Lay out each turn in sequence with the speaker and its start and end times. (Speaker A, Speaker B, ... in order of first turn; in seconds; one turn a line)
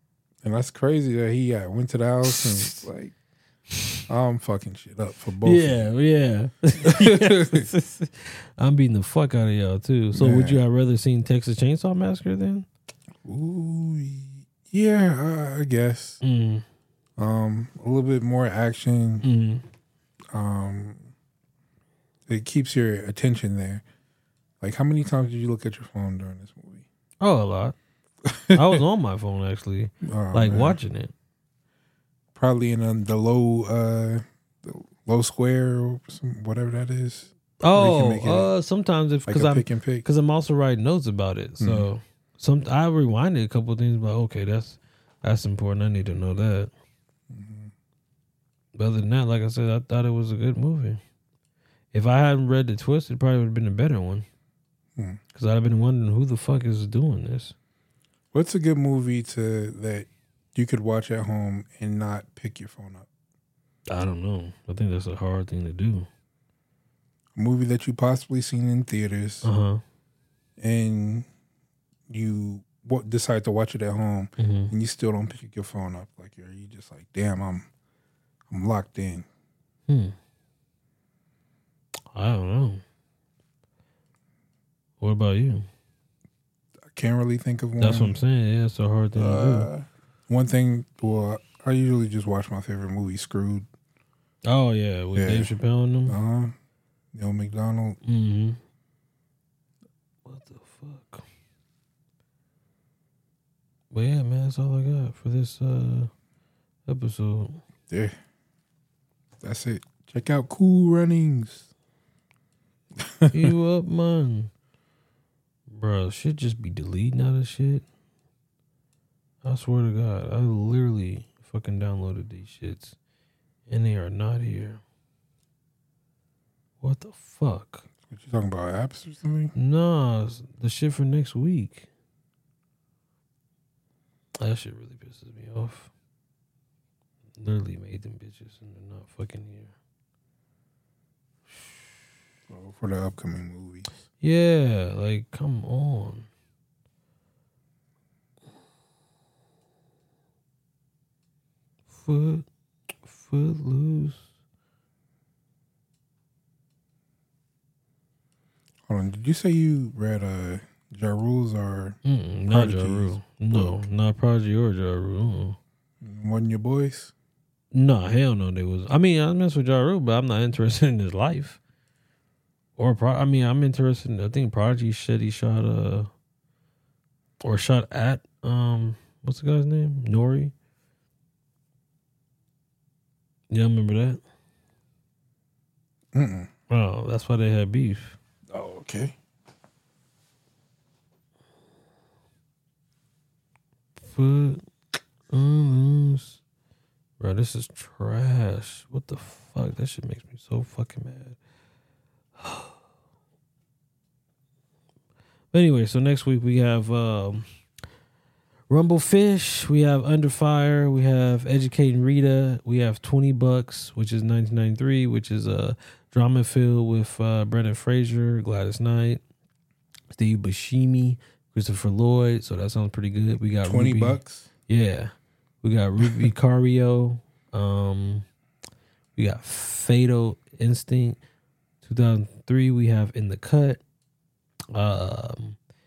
Speaker A: 0.4-3.1
Speaker B: 2.2-2.8
Speaker A: 4.1-5.9
Speaker B: 5.4-12.7
Speaker A: 6.8-7.6
Speaker A: 10.1-10.6
Speaker A: 13.2-16.2
Speaker B: 16.2-16.6
Speaker A: 17.2-19.2
Speaker B: 19.2-19.6
Speaker A: 20.3-21.1
Speaker A: 22.3-23.8
Speaker A: 24.6-26.9
Speaker B: 27.2-27.7
Speaker A: 28.2-28.8
Speaker B: 28.5-31.1
Speaker A: 30.0-30.8
Speaker A: 32.3-38.5
Speaker B: 37.6-46.7
Speaker A: 39.3-40.0
Speaker A: 41.6-41.9
Speaker A: 47.3-47.7
Speaker B: 48.7-51.0
Speaker B: 51.9-54.2
Speaker B: 55.3-57.5
Speaker A: 58.3-63.1
Speaker B: 63.9-66.1
Speaker A: 67.3-69.5
Speaker B: 69.4-69.8
Speaker A: 70.6-71.3
Speaker A: 72.1-77.7
Speaker B: 74.4-74.7
Speaker A: 78.5-79.3
Speaker B: 79.9-80.2
Speaker B: 82.1-82.8
Speaker B: 85.0-85.7
Speaker A: 86.9-88.2
Speaker B: 87.8-89.7
Speaker A: 89.1-93.7
Speaker B: 94.4-96.2
Speaker A: 95.1-95.5
Speaker A: 96.0-96.6
Speaker A: 97.1-98.0
Speaker B: 98.0-98.6
Speaker B: 100.2-101.2
Speaker B: 103.9-106.1
Speaker B: 106.9-107.6
Speaker A: 107.9-108.2
Speaker A: 109.4-111.7
Speaker A: 113.0-113.5
Speaker B: 113.3-114.5
Speaker B: 115.7-117.8
Speaker B: 119.4-123.0
Speaker B: 123.7-124.8
Speaker B: 126.8-127.9
Speaker A: 128.1-129.5
Speaker B: 129.5-131.9
Speaker B: 134.4-135.9
Speaker B: 137.4-139.7
Speaker A: 142.5-143.9
Speaker B: 144.2-146.3
Speaker B: 151.9-152.4
Speaker B: 153.1-154.2
Speaker A: 158.9-162.0
Speaker B: 162.0-165.6
Speaker A: 162.5-163.8
Speaker A: 166.0-167.1
Speaker B: 167.7-171.6
Speaker B: 172.8-176.1
Speaker B: 177.4-180.5
Speaker B: 183.5-184.2
Speaker A: 186.1-186.5
Speaker B: 186.7-188.2
Speaker A: 188.5-189.2
Speaker B: 194.0-194.6
Speaker B: 195.3-196.4
Speaker B: 197.2-201.4
Speaker B: 202.4-202.8
Speaker B: 205.5-207.5
Speaker B: 208.7-219.2
Speaker B: 220.1-228.2
Speaker A: 223.6-224.5
Speaker A: 226.0-226.3
Speaker B: 229.2-231.2
Speaker B: 231.8-233.8
Speaker B: 234.7-235.6